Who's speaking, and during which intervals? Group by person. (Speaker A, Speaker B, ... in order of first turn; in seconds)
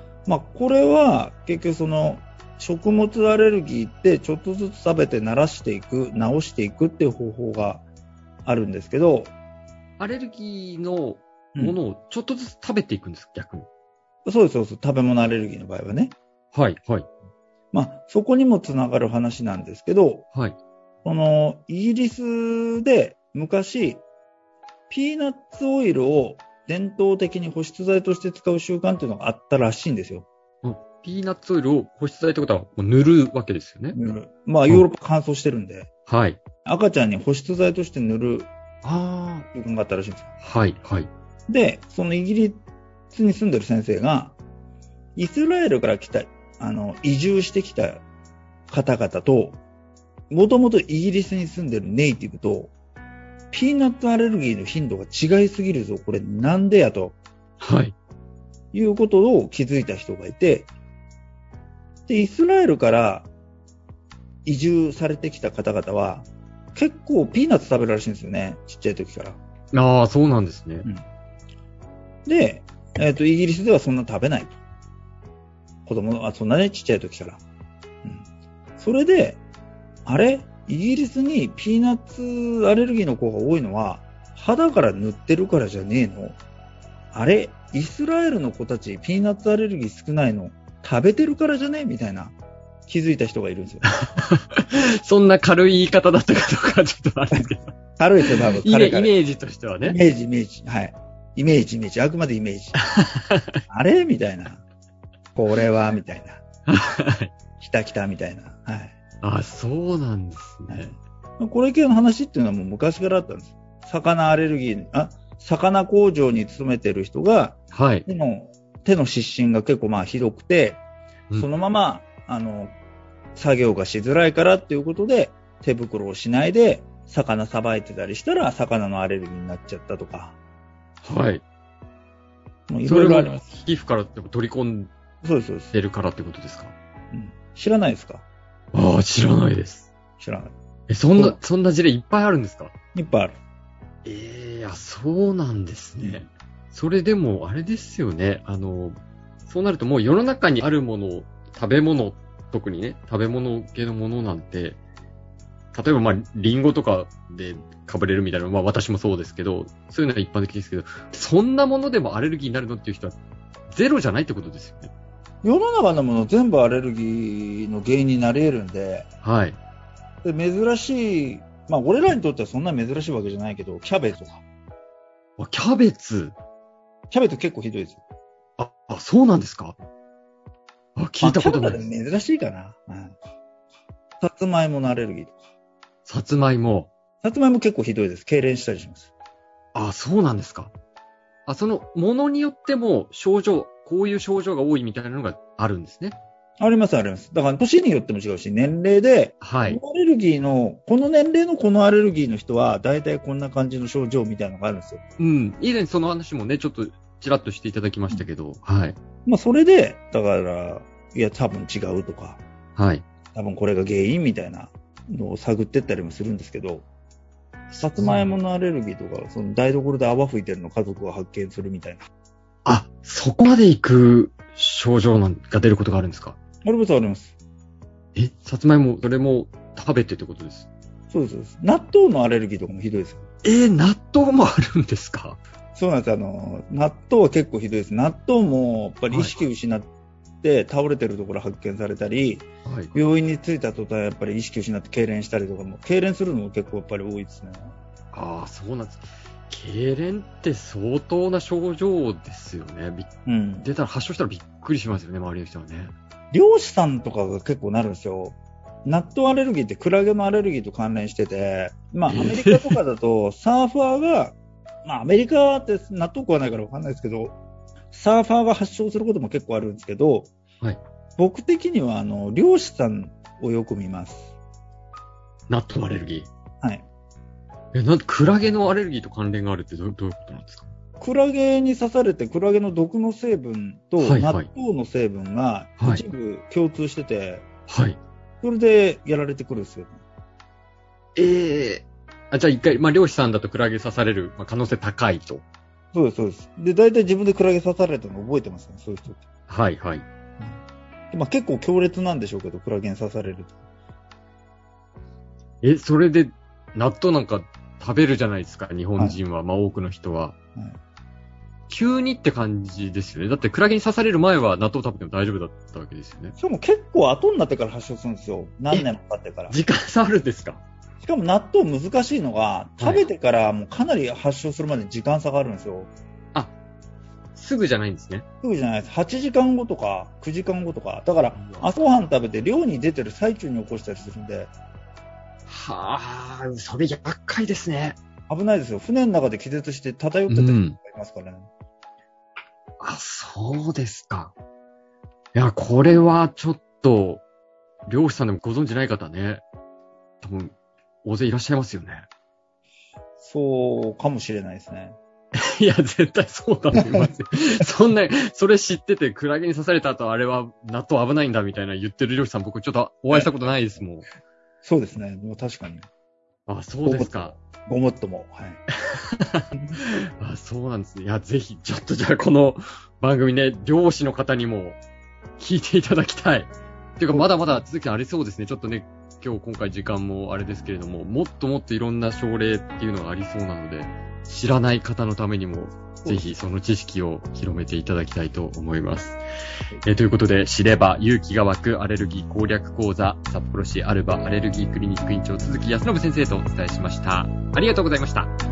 Speaker A: 0.2-7.8, 8.4-9.3, 14.2-16.1, 17.7-20.2, 21.0-24.0, 24.9-30.2, 33.9-35.9, 36.6-38.5, 39.5-40.3, 41.5-44.4, 45.1-48.0, 48.7-49.6, 50.3-52.7, 53.5-57.2, 58.7-60.7, 62.1-63.3, 64.4-69.4, 72.2-74.6, 75.8-77.4, 78.8-79.4, 80.0-86.4, 87.1-92.3, 92.9-93.9, 97.3-99.2, 99.8-102.8, 103.7-104.6, 105.3-106.4, 107.6-108.9, 110.7-120.8, 121.3-122.7, 123.3-130.3, 132.7-133.4, 135.2-135.7, 137.1-138.2, 140.2-140.5, 142.9-143.3, 146.0-146.2, 165.4-169.1, 170.2-174.4, 177.1-178.0, 181.2-183.2, 184.2-185.4, 187.2-189.1, 196.6-205.0, 209.2-212.4, 213.3-216.8, 217.8-222.0, 226.6-227.3, 231.1-233.2, 235.7-239.9, 240.4-247.8, 253.2-253.7, 256.3-267.4, 267.9-270.3, 271.2-274.3, 276.6-276.9, 281.0-287.4, 288.4-290.0, 295.9-299.2, 301.1-303.6, 316.4-319.6, 321.0-325.9, 328.4-334.5, 338.3-341.5, 353.2-354.9, 356.7-357.1, 364.6-365.9, 366.8-368.6, 377.1-377.6, 386.0-386.3
Speaker B: 10.0-13.7, 16.5-17.1, 30.6-34.0, 36.0-36.4, 38.8-39.5, 40.4-41.1, 57.6-57.9, 69.7-70.9, 94.0-100.0, 102.8-103.6, 106.7-107.3, 109.2-110.9, 117.7-118.0, 131.0-131.4, 132.8-134.9, 135.7-136.7, 138.7-139.9, 140.9-142.7, 144.0-154.8, 155.7-163.2, 163.7-164.9, 169.2-169.6, 175.4-176.3, 178.6-179.8, 180.9-181.8, 186.1-186.9, 189.7-190.7, 191.5-196.2, 199.4-199.8, 205.2-209.0, 212.8-213.0, 217.7-218.4, 222.6-226.4, 228.1-230.7, 233.4-235.4, 242.6-242.9, 248.1-253.1, 253.6-255.9, 262.1-262.8, 275.5-276.3, 277.7-280.7, 284.0-284.5, 287.7-288.0, 291.1-295.4, 299.5-300.1, 305.6-310.4, 311.7-316.3, 319.5-320.6, 322.8-323.1, 327.3-328.2, 331.4-331.7, 335.5-338.0, 340.3-340.8, 342.8-344.3, 345.3-347.2, 347.9-349.4, 350.2-352.1, 355.5-364.1, 366.5-367.3, 368.9-374.8, 375.4-389.2, 389.8-398.3